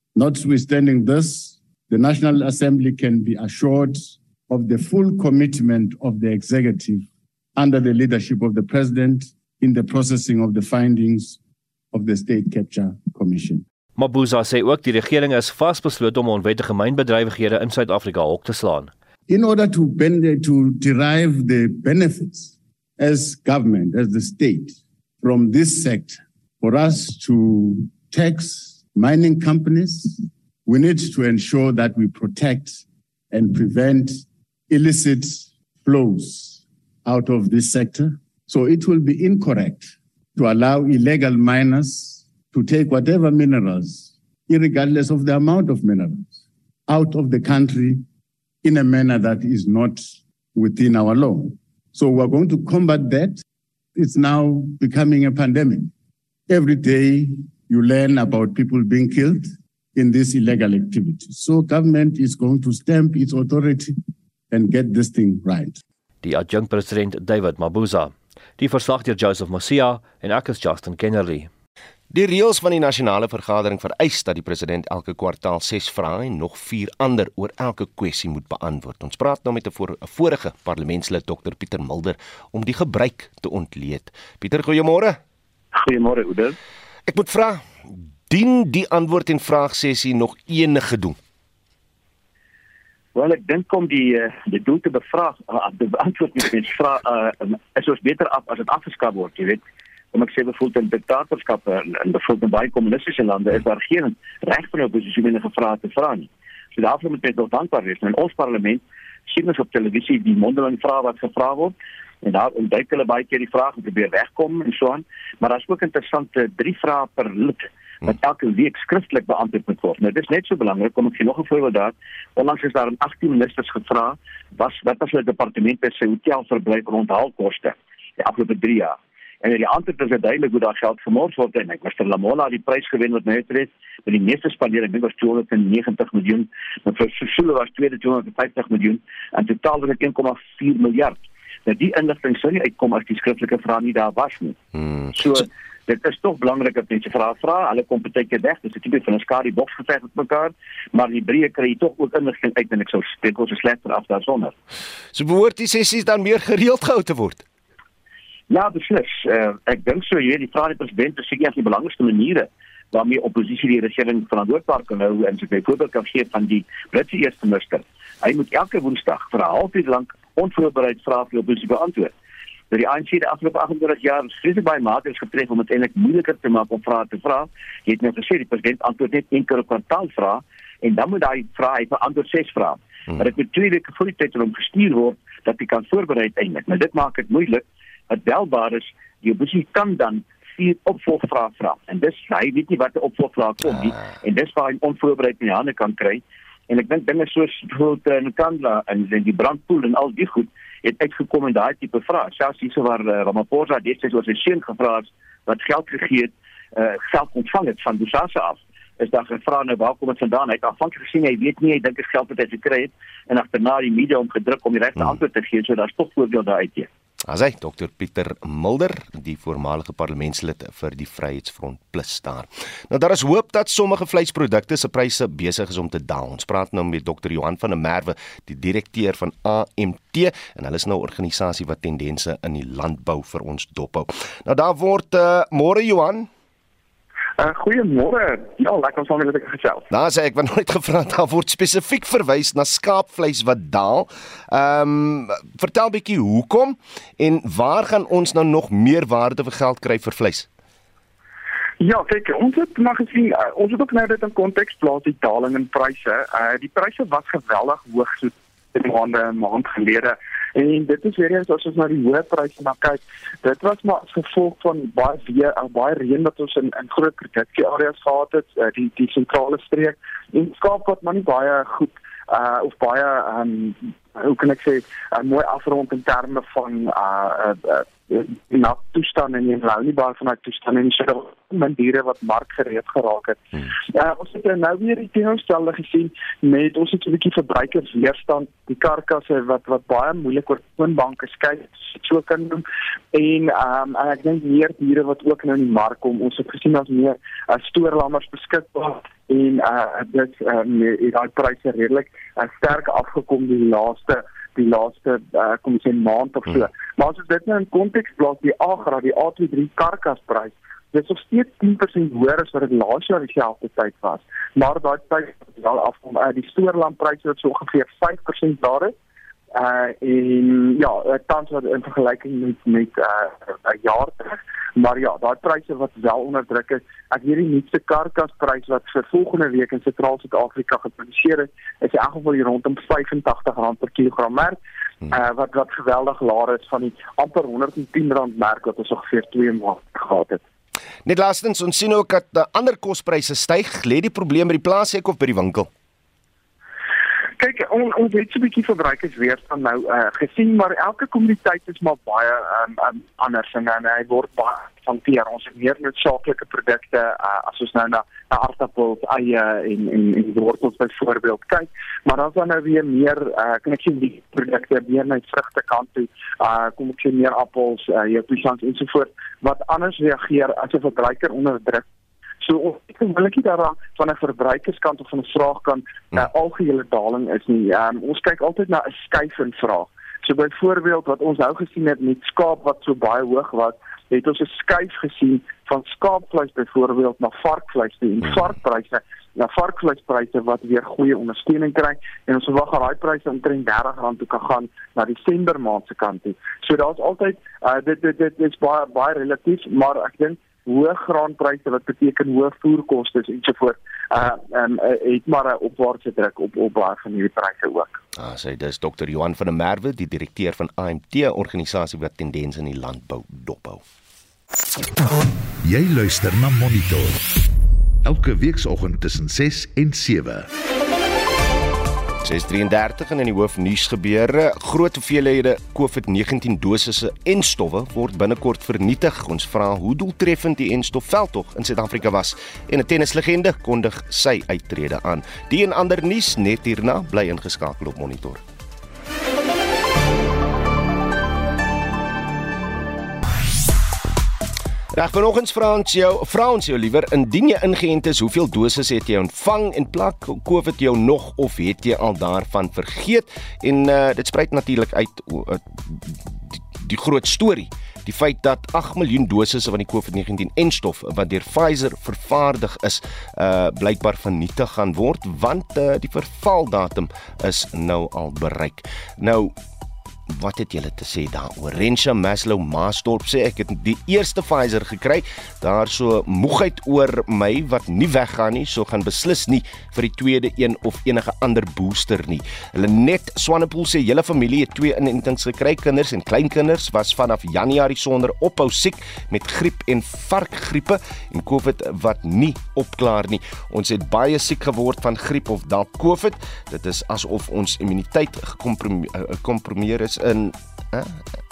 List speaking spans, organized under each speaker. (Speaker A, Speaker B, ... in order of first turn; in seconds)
Speaker A: 0.1-11.4, 11.9-13.6, 19.3-48.0, 48.6-50.0, 50.5-53.4, 54.0-55.9, 56.5-63.9, 64.5-65.8
Speaker B: 14.0-18.9, 66.2-71.5
Speaker C: 72.1-85.2, 87.1-87.7, 88.3-91.2, 155.1-157.4, 217.3-236.3, 239.9-250.5, 341.1-345.7, 408.2-413.8, 422.2-438.4, 444.9-469.5, 470.3-501.2
Speaker D: 85.7-86.6, 93.2-99.6, 100.1-144.6, 145.1-154.5, 158.5-172.1, 172.7-216.9
Speaker E: 237.4-239.8, 251.8-318.9, 319.5-340.4, 347.4-371.9, 372.4-408.0
Speaker F: 415.6-417.2, 418.1-420.5